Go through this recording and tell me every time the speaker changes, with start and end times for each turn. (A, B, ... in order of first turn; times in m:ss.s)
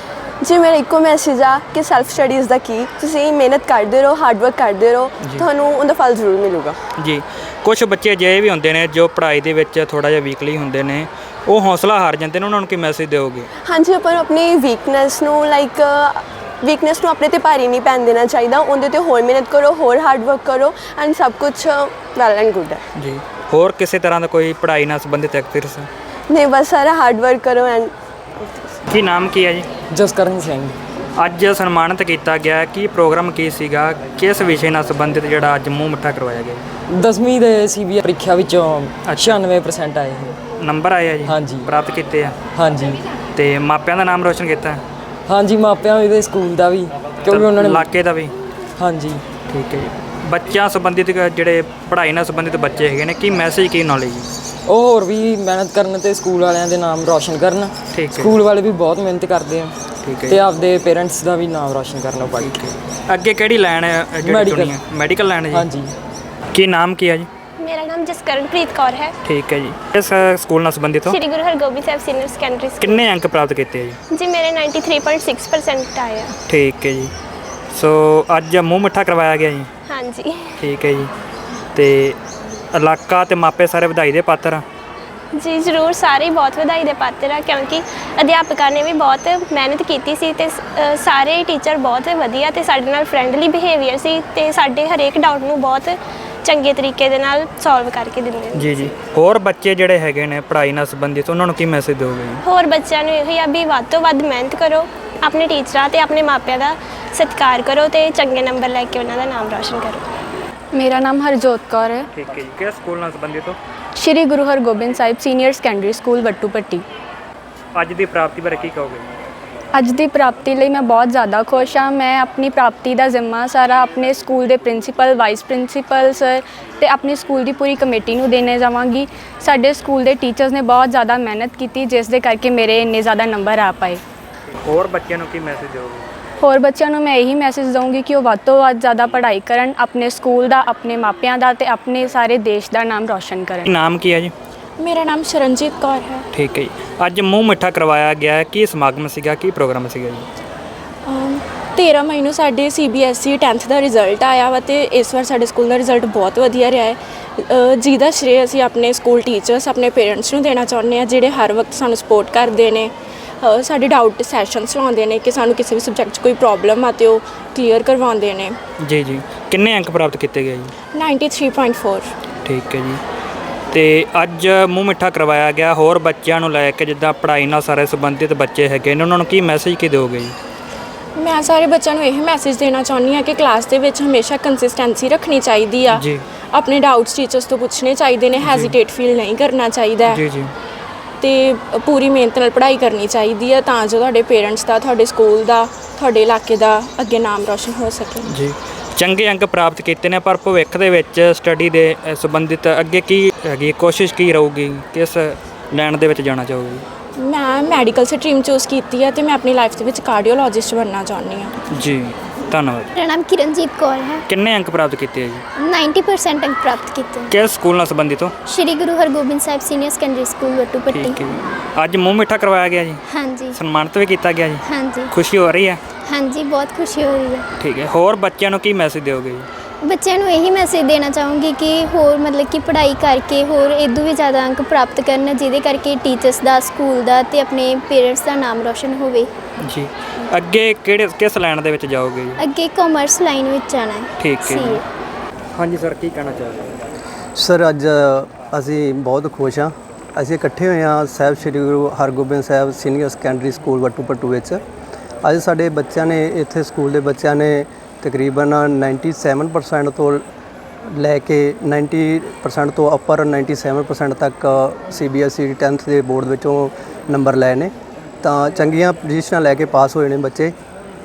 0:00.4-0:06.8 A
0:07.0-0:13.5 B
0:13.6-0:22.8 A
0:23.0-0:25.9 B
0:26.3-0:28.6 A
0:28.9-0:29.7 B
0:29.9-0:30.7 C
0:31.2-0:36.6 B
0:36.9-0:40.4 C
0:39.1-0:39.3 B
0:40.6-0:42.4 B
0:41.2-0:41.6 C
0:42.5-0:43.0 C
0:43.4-0:44.8 B
0:45.2-0:47.8 C
0:47.3-0:48.3 B
0:48.8-0:49.2 C
0:49.5-0:54.3 B
0:54.6-0:59.7 C
0:57.9-0:58.3 B
1:00.0-1:00.4 B
1:00.3-1:02.7 C
1:02.4-1:05.6 B
1:04.2-1:04.8 C
1:05.5-1:05.9 C
1:06.5-1:07.3 B
1:07.6-1:09.1 D
1:09.2-1:11.2 B
1:11.0-1:13.1 D
1:12.9-1:14.0 B
1:14.1-1:16.3 D
1:16.5-1:17.1 B
1:17.7-1:19.7 B
1:19.9-1:20.7 D
1:20.6-1:21.1 B
1:21.8-1:22.2 B
1:22.7-1:24.6 B
1:25.3-1:38.9 D
1:38.6-1:42.4 B
1:42.4-1:50.1 D
1:50.7-1:52.1 E
1:52.1-1:53.6 B
1:54.0-1:56.8 E
1:57.7-1:59.0 B
1:59.7-2:14.0 E
2:14.7-2:16.0 B
2:16.4-2:23.7 E
2:23.6-2:24.3 B
2:24.8-2:26.2 F
2:26.3-2:30.3 B
2:31.0-2:48.6 F
2:48.8-2:50.7 B
2:50.9-2:52.1 F
2:52.4-2:53.0 B
2:53.7-3:00.4 B
3:01.2-3:10.2 F
3:05.9-3:06.2 B
3:08.4-3:08.8 B
3:10.1-3:10.5 B
3:11.2-3:18.3 F
3:18.3-3:26.8 B
3:27.2-3:31.6 F
3:31.7-3:32.9 B
3:32.9-3:34.2 G
3:34.3-3:35.4 B
3:35.6-3:37.3 G
3:37.3-3:38.3 B
3:38.4-3:41.2 G
3:40.9-3:43.0 B
3:43.1-3:43.6 G
3:43.5-3:45.8 B
3:44.6-3:45.1 G
3:46.1-3:47.4 G
3:47.6-3:49.5 B
3:49.8-3:59.3 G
4:00.4-4:02.4 B
4:02.4-4:04.8 G
4:04.2-4:04.8 B
4:05.5-4:06.7 B
4:07.4-4:14.6 H
4:15.2-4:20.2 H
4:20.9-4:30.5 H